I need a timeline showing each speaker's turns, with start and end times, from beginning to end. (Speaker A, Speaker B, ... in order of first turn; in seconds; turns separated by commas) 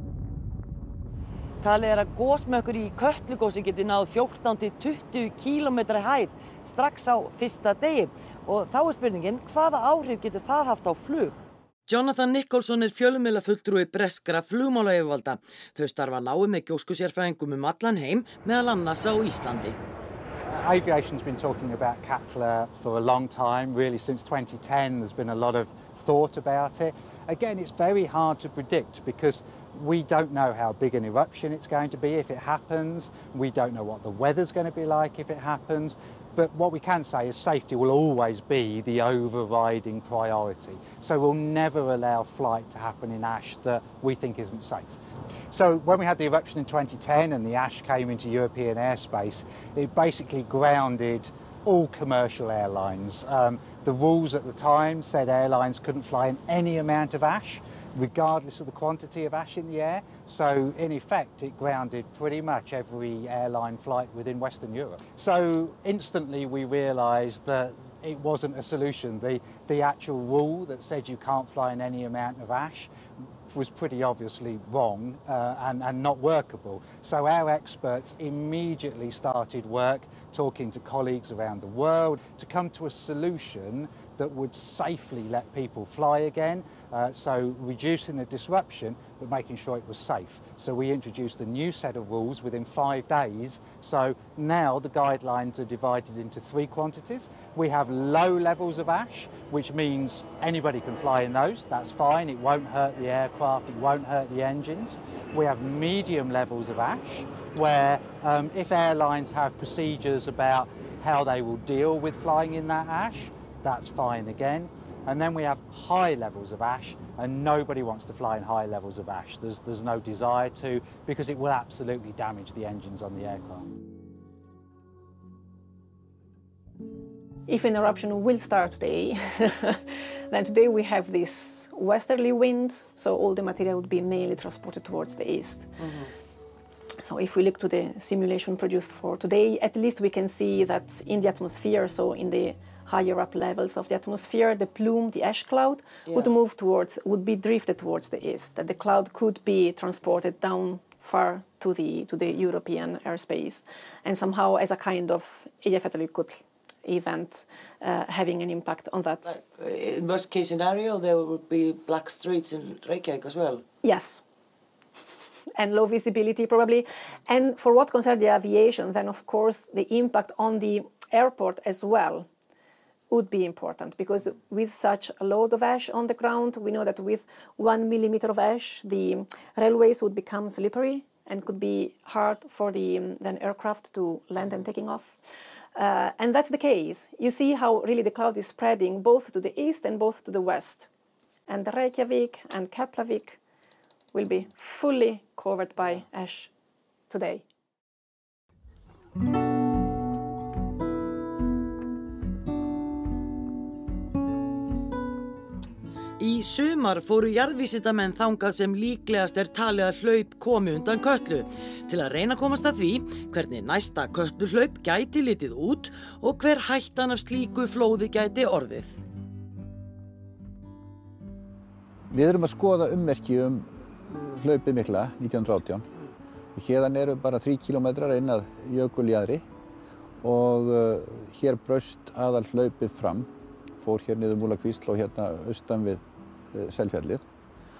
Speaker A: 1.6-19.8, Speaker B: 20.4-45.0, Speaker B: 45.5-72.9, Speaker B: 73.5-123.7, Speaker C: 127.5-135.7, Speaker A: 135.8-136.1, Speaker C: 137.0-159.3, Speaker A: 146.1-146.3, Speaker A: 159.2-163.6, Speaker C: 163.8-164.2, Speaker C: 165.6-172.3, Speaker C: 173.1-185.2, Speaker C: 185.7-190.9, Speaker C: 191.5-193.4, Speaker C: 194.1-196.5, Speaker C: 197.1-197.4, Speaker A: 206.2-219.0, Speaker D: 222.1-225.8, Speaker D: 226.5-229.4, Speaker D: 230.2-237.2